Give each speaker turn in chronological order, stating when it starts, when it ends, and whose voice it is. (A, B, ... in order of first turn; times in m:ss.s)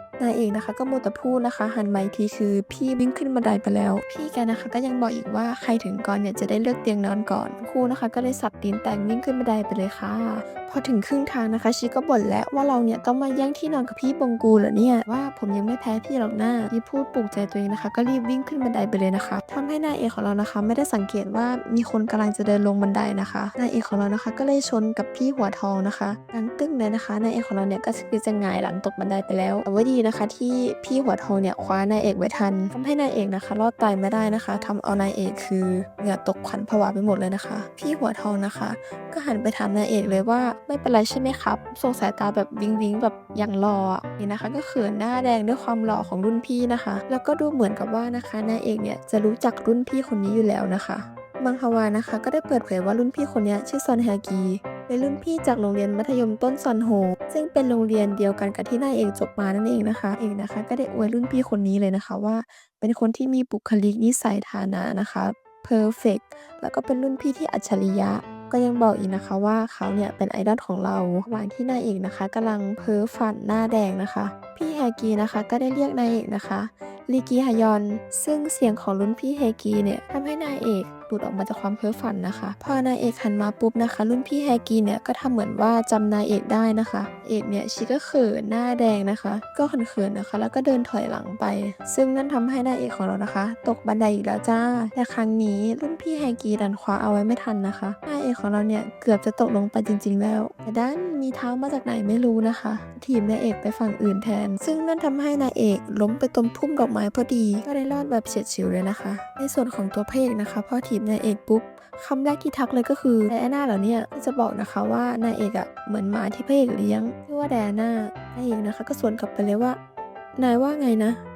0:00.2-1:59.8 A
2:00.4-2:01.2 A